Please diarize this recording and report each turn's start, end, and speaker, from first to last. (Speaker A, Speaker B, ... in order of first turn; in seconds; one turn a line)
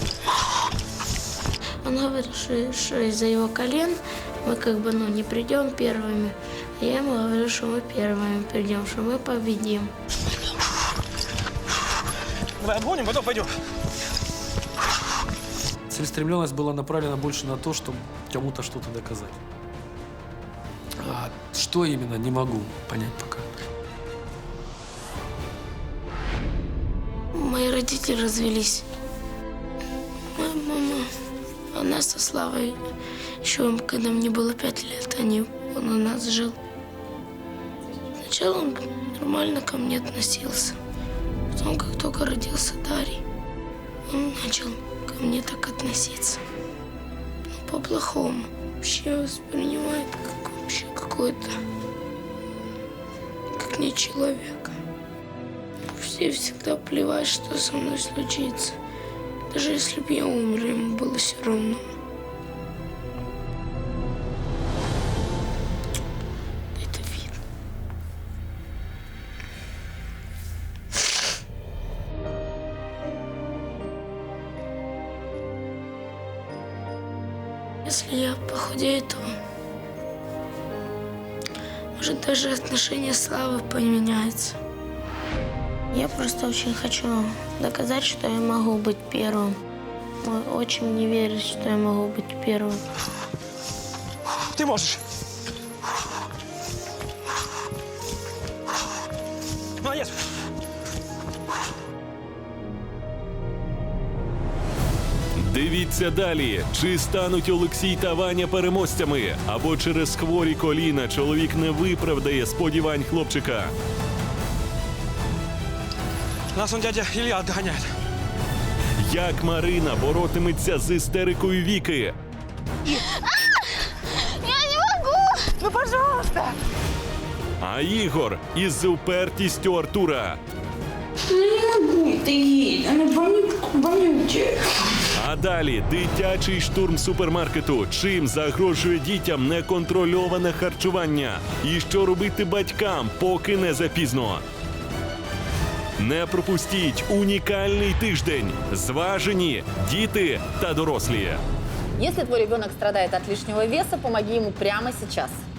Speaker A: 1.8-9.9
Speaker B: 12.6-13.5
Speaker B: 15.9-19.4
Speaker B: 21.0-23.5
Speaker A: 27.3-28.8
Speaker A: 30.3-31.1
Speaker A: 31.7-32.8
Speaker A: 33.4-36.6
Speaker A: 38.2-40.8
Speaker A: 41.5-43.2
Speaker A: 44.1-46.4
Speaker A: 47.5-51.5
Speaker A: 53.5-54.8
Speaker A: 55.9-58.8
Speaker A: 59.5-61.8
Speaker A: 66.8-67.4
Speaker A: 77.8-79.3
Speaker A: 82.0-84.6
Speaker A: 85.9-89.6
Speaker A: 90.2-92.8
Speaker B: 94.5-95.0
Speaker B: 99.8-100.2
Speaker C: 105.3-113.7
Speaker B: 116.5-117.9
Speaker C: 119.0-122.1
Speaker C: 127.6-130.4
Speaker D: 131.3-134.6
Speaker C: 135.1-144.4
Speaker C: 146.0-151.4
Speaker E: 152.0-155.4